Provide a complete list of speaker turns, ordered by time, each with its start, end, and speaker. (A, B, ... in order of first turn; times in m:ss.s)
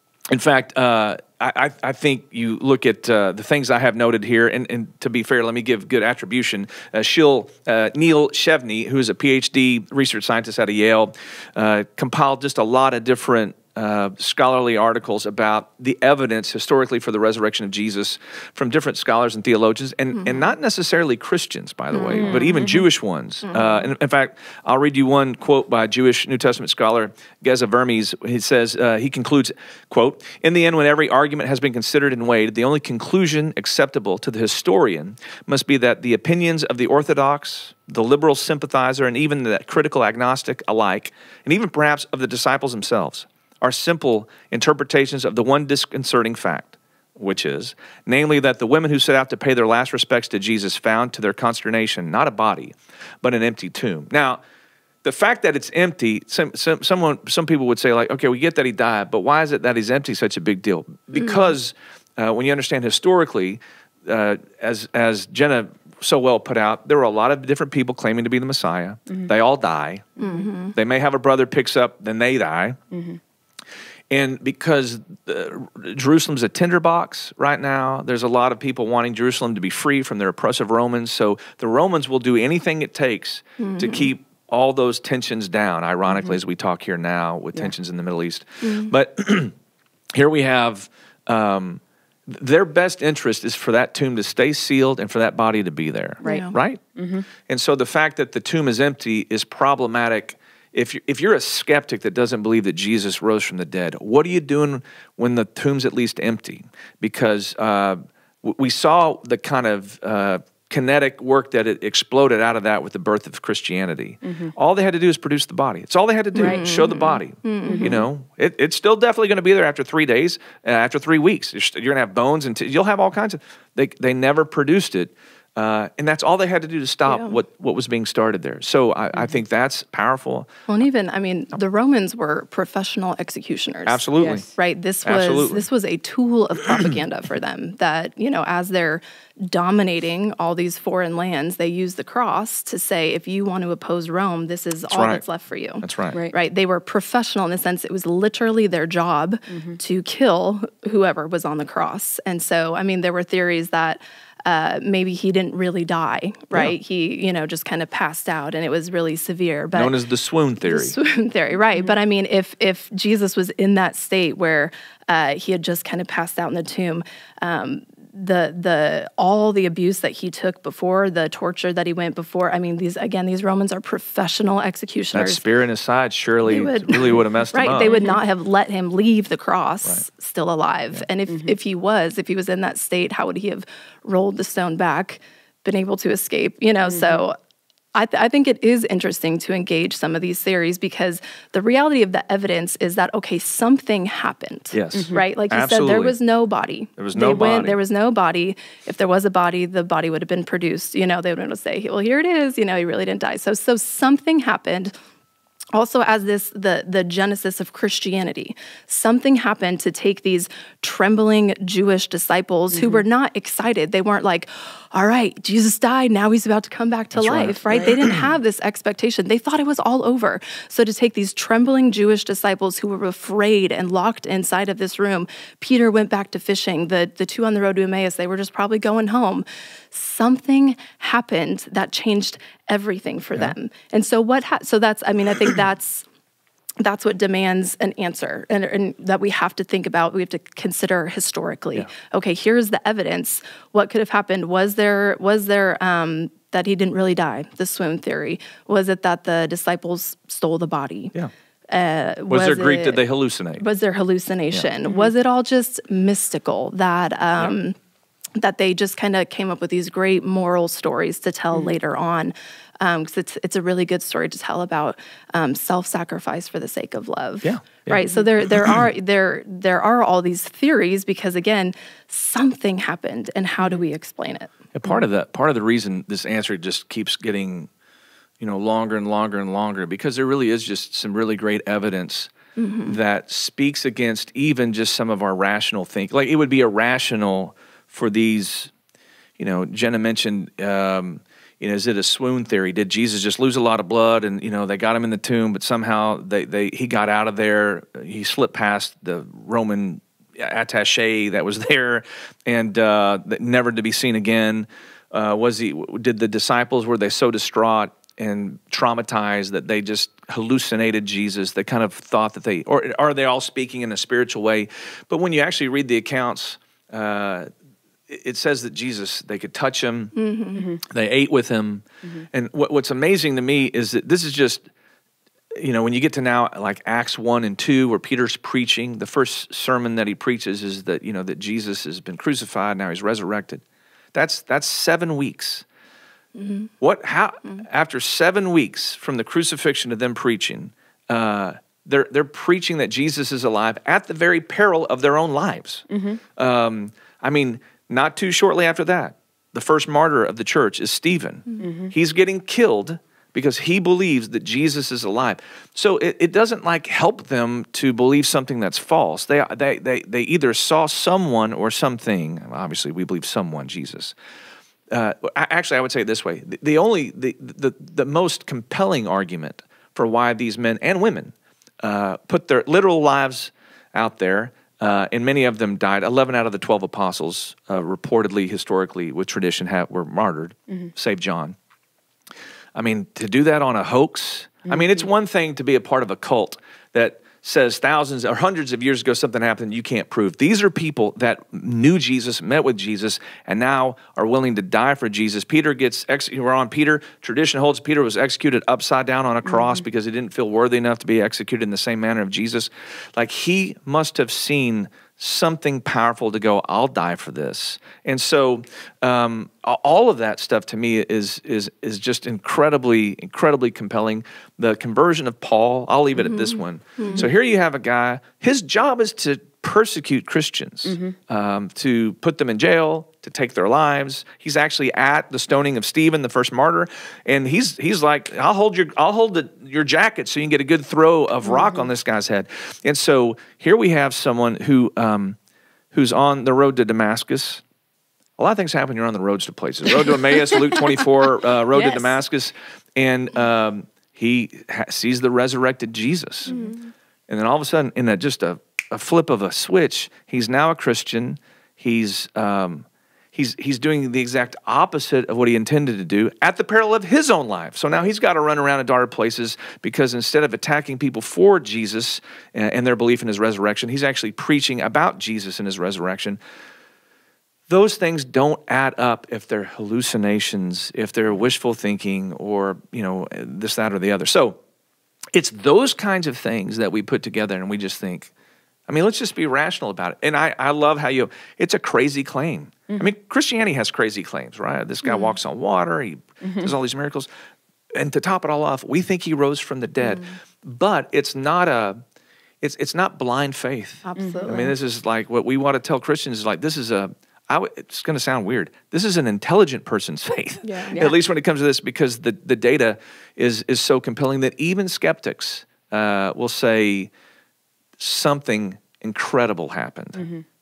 0:00.3-0:54.4 A
0:21.9-0:22.6 B
0:22.1-0:22.8 C
0:23.5-0:23.8 B
0:55.0-1:10.2 A
1:10.2-1:10.5 C
1:10.2-1:10.7 B
1:10.7-1:12.8 A
1:12.9-1:13.2 C
1:14.1-1:29.6 A
1:23.6-1:24.1 B
1:28.6-1:28.9 B
1:30.1-1:36.8 A
1:36.2-1:36.5 B
1:36.2-1:37.3 C
1:37.4-2:10.5 A
1:54.2-1:54.5 C
1:56.4-1:58.0 B
1:56.4-1:56.6 C
1:57.6-1:58.0 C
2:07.1-2:07.4 B
2:10.7-2:40.0 B
2:13.9-2:14.4 A
2:14.2-2:14.5 C
2:15.0-2:15.7 A
2:24.9-2:25.2 A
2:25.8-2:26.2 A
2:29.5-2:29.8 C
2:39.7-2:41.0 A
2:40.6-2:55.4 B
2:55.1-2:58.0 A
2:56.4-3:07.4 B
2:57.8-2:58.2 C
3:01.3-3:01.6 C
3:06.9-3:07.2 C
3:07.9-3:24.9 B
3:14.7-3:16.2 A
3:14.9-3:15.2 C
3:17.0-3:17.8 A
3:25.7-3:56.0 B
3:32.7-3:33.0 C
3:37.1-3:38.3 A
3:56.8-4:11.1 B
4:11.7-4:13.0 B
4:12.3-4:13.6 A
4:13.6-4:17.8 B
4:18.4-4:34.6 B
4:27.4-4:28.0 A
4:34.8-4:37.7 A
4:38.4-4:42.3 A
4:42.6-4:43.0 B
4:42.9-4:48.7 A
4:49.4-5:17.5 A
5:18.1-5:20.1 A
5:20.2-5:20.6 B
5:20.9-5:24.7 A
5:25.6-5:33.6 A
5:34.1-5:35.6 A
5:36.4-5:36.7 B
5:36.8-5:45.8 A
5:45.9-5:46.2 C
5:46.4-6:04.2 A
5:51.6-5:51.9 C
6:04.9-6:21.6 A
6:22.8-7:15.4 A
6:24.7-6:25.0 C
6:56.2-6:57.3 B
7:00.9-7:01.2 C
7:15.9-7:17.6 A
7:18.4-7:26.6 A
7:21.8-7:22.1 C
7:26.5-7:26.8 B
7:27.3-7:46.4 A
7:47.7-7:54.6 A
7:55.3-7:58.3 A
7:58.9-8:07.3 A
8:06.4-8:06.7 C
8:07.9-8:12.0 A
8:12.6-8:27.1 A
8:14.1-8:14.7 B
8:14.2-8:14.5 C
8:20.6-8:21.0 B
8:28.0-8:30.2 A
8:30.2-8:30.4 C